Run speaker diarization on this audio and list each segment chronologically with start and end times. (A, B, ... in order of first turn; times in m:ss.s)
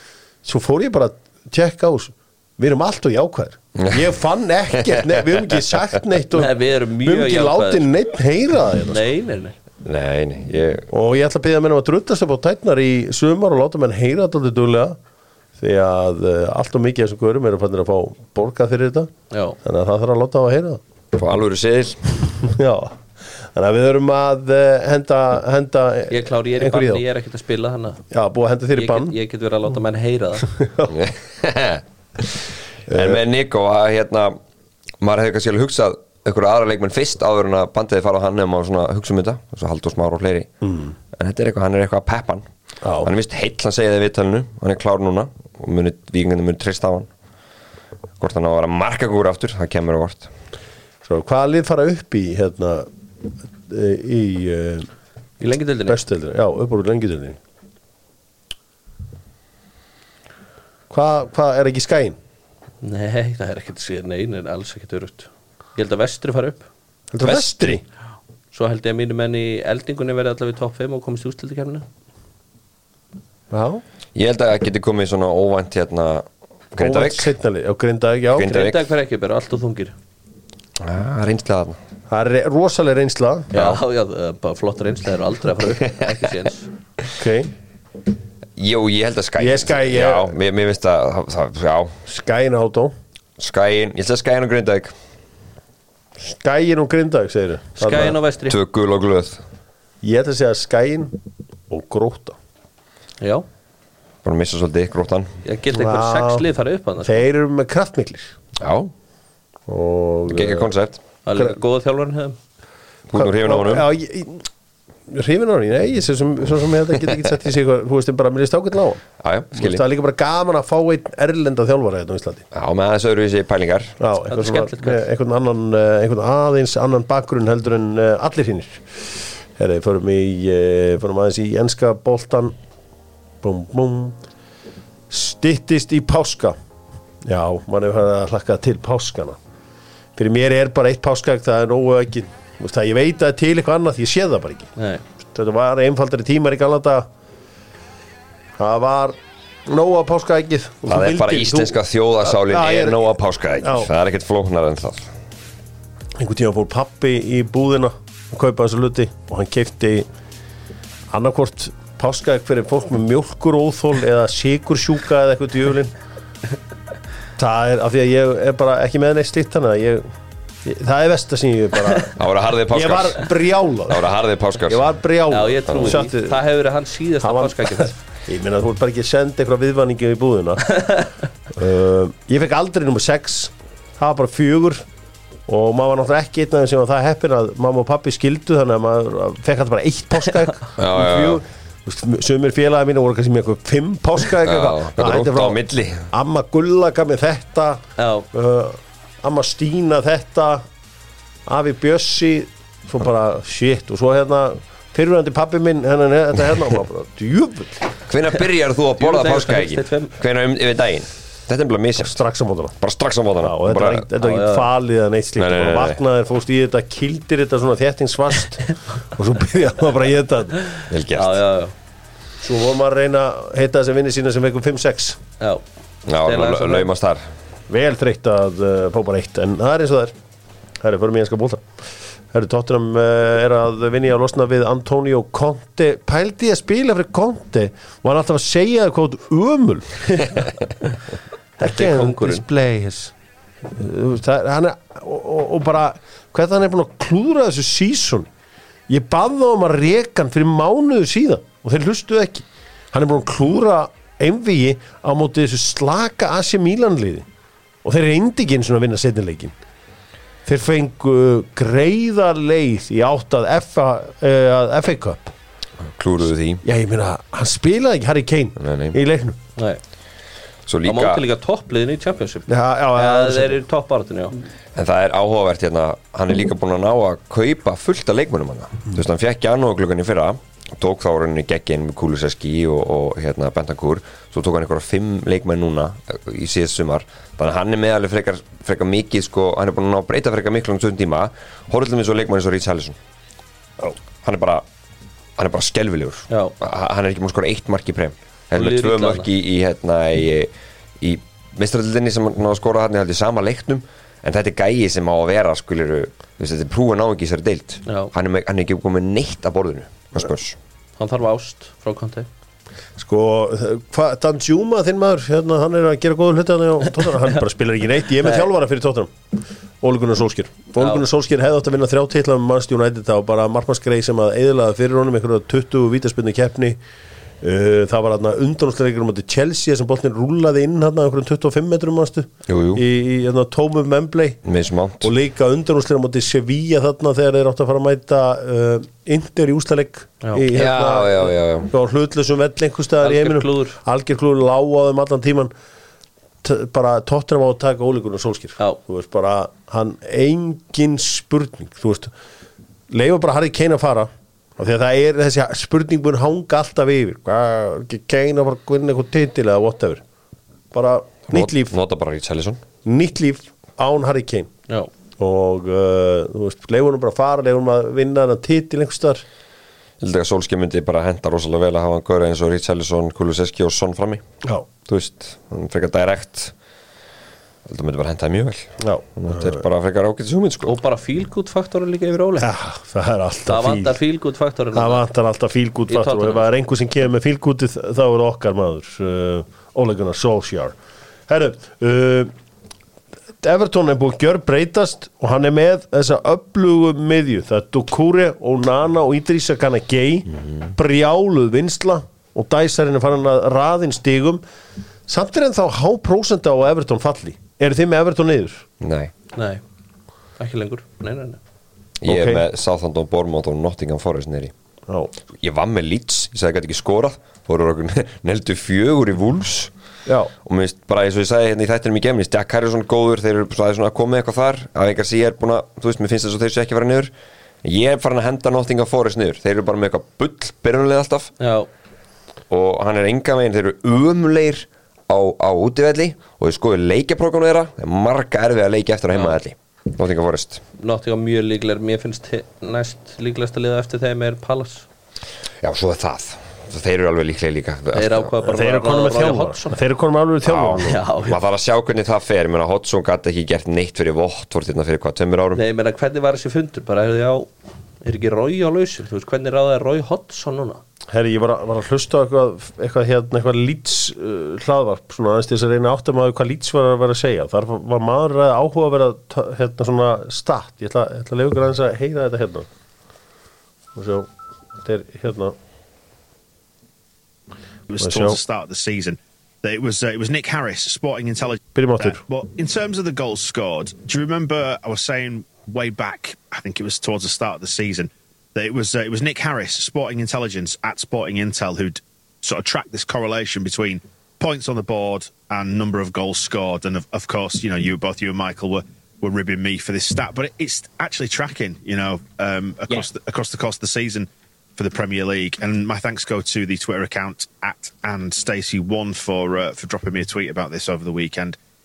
0:00.4-0:09.0 A
0:04.8-0:05.8 B
0:06.3-0:07.9 C
0:08.9-0:09.5 C
0:09.8-0:10.9 B
0:10.9-0:15.0 A
0:15.6-0:19.1 A
0:19.3-0:19.6 C
0:19.6-0:20.8 A
0:21.1-0:22.2 B
0:22.4-0:27.0 A
0:26.1-0:28.0 C
0:28.1-0:29.1 A
0:28.8-0:30.5 C
0:30.4-0:30.9 A
0:30.9-0:34.4 B
0:32.9-0:33.2 A
0:35.0-0:40.5 B
0:40.6-0:40.9 A
0:41.1-0:42.4 B
0:42.8-0:43.1 A
0:43.0-0:47.1 B
0:48.2-0:50.3 B
0:51.0-0:52.9 A
0:53.7-0:54.9 A
0:55.4-0:56.0 C
0:55.9-0:57.4 A
1:00.9-1:02.2 A
1:02.8-1:06.6 C
1:07.1-1:07.8 A
1:07.2-1:07.8 B
1:08.5-1:11.8 C
1:13.5-1:13.8 A
1:14.1-1:17.3 B
1:16.8-1:18.6 A
1:18.4-1:18.8 B
1:18.4-1:19.9 C
1:20.8-1:21.8 B
1:22.1-1:23.5 A
1:23.5-1:23.8 B
1:23.5-1:26.7 C
1:27.2-1:27.5 A
1:28.6-1:32.0 B
1:29.4-1:30.3 A
1:32.1-1:32.9 A
1:33.4-1:34.9 B
1:36.2-1:38.2 A
1:37.8-1:38.6 C
1:38.5-1:39.4 B
1:40.0-1:41.1 A
1:41.7-1:42.4 A
1:44.2-1:45.3 B
1:45.4-1:47.2 C
1:45.7-1:46.4 A
1:47.0-1:48.3 A
1:48.6-1:48.9 B
1:49.7-1:50.7 A
1:50.3-1:51.0 B
1:51.2-1:52.4 C
1:53.1-1:53.8 B
1:53.1-1:54.5 A
1:55.1-2:02.4 A
1:59.2-1:59.8 B
2:02.5-2:04.0 B
2:04.0-2:12.5 A
2:04.3-2:05.0 C
2:13.4-2:14.2 A
2:15.1-2:16.6 A
2:17.2-2:19.4 A
2:20.2-2:24.7 A
2:24.8-2:25.0 C
2:25.3-2:27.0 A
2:28.6-2:33.0 A
2:30.9-2:35.1 B
2:33.6-2:33.9 A
2:36.2-2:40.1 A
2:41.1-2:45.9 A
2:47.4-2:50.1 A
2:50.6-2:52.2 A
2:52.2-2:53.3 B
2:52.7-2:54.0 A
2:53.9-2:54.8 B
2:54.6-2:56.4 A
2:55.3-2:57.9 C
2:55.7-2:56.0 B
2:57.2-3:01.0 A
3:01.5-3:04.8 A
3:05.5-3:20.6 A
3:10.8-3:11.4 B
3:14.4-3:16.1 B
3:18.0-3:18.3 C
3:21.5-3:27.9 A
3:28.1-3:32.2 B
3:29.0-3:30.1 C
3:32.0-3:32.8 A
3:32.8-3:34.1 B
3:33.4-3:40.7 A
3:34.2-3:34.7 C
3:35.4-3:36.0 B
3:40.7-3:41.7 C
3:40.9-3:41.4 B
3:42.4-3:45.2 A
3:46.1-3:47.2 B
3:46.2-3:46.9 C
3:47.7-3:50.1 A
3:50.8-3:51.6 A
3:52.3-4:00.5 A
4:01.6-4:02.4 C
4:01.6-4:03.1 A
4:03.7-4:08.3 A
4:08.9-4:17.2 A
4:17.8-4:19.5 A
4:20.4-4:25.3 A
4:25.8-4:26.6 B
4:26.6-4:29.4 A
4:28.6-4:29.0 B
4:30.7-4:31.2 B
4:30.8-4:34.3 C
4:32.5-4:33.6 A
4:34.7-4:53.0 B
4:54.2-4:54.6 B
4:55.4-5:10.6 B
4:58.5-4:59.3 C
5:07.8-5:08.1 C
5:11.0-5:12.3 C
5:13.0-5:26.8 A
5:20.8-5:21.0 C
5:27.4-5:34.4 A
5:32.5-5:32.8 B
5:34.4-5:35.1 B
5:35.0-5:45.5 A
5:40.5-5:41.7 B
5:43.0-5:43.8 C
5:46.4-5:52.1 A
5:52.9-6:00.0 A
6:00.7-6:01.7 A
6:01.3-6:02.6 B
6:02.8-6:04.5 A
6:05.2-6:09.2 A
6:10.0-6:14.2 B
6:14.9-6:16.5 B
6:17.6-6:20.7 B
6:18.8-6:19.6 A
6:20.6-6:22.5 C
6:22.4-6:24.0 A
6:23.5-6:25.0 C
6:24.7-6:30.7 A
6:25.9-6:26.5 C
6:31.3-6:32.3 A
6:33.4-6:44.4 A
6:40.4-6:40.7 B
6:45.1-6:48.6 A
6:48.8-6:49.1 B
6:49.3-6:49.6 C
6:50.4-6:51.4 C
6:52.0-6:54.5 B
6:52.0-6:52.4 A
6:55.4-6:59.7 B
7:00.0-7:00.3 A
7:00.4-7:07.1 B
7:07.6-7:11.3 B
7:11.4-7:11.7 C
7:12.5-7:20.6 B
7:20.8-7:24.8 C
7:25.6-7:28.4 B
7:27.9-7:29.8 C
7:28.4-7:31.0 A
7:30.4-7:35.6 B
7:30.9-7:31.4 C
7:35.5-7:37.5 C
7:38.0-7:40.8 C
7:41.1-7:52.7 A
7:53.9-7:54.3 A
7:54.8-7:55.5 A
7:57.9-8:31.6 D
7:58.0-7:58.4 A
8:01.7-8:02.2 A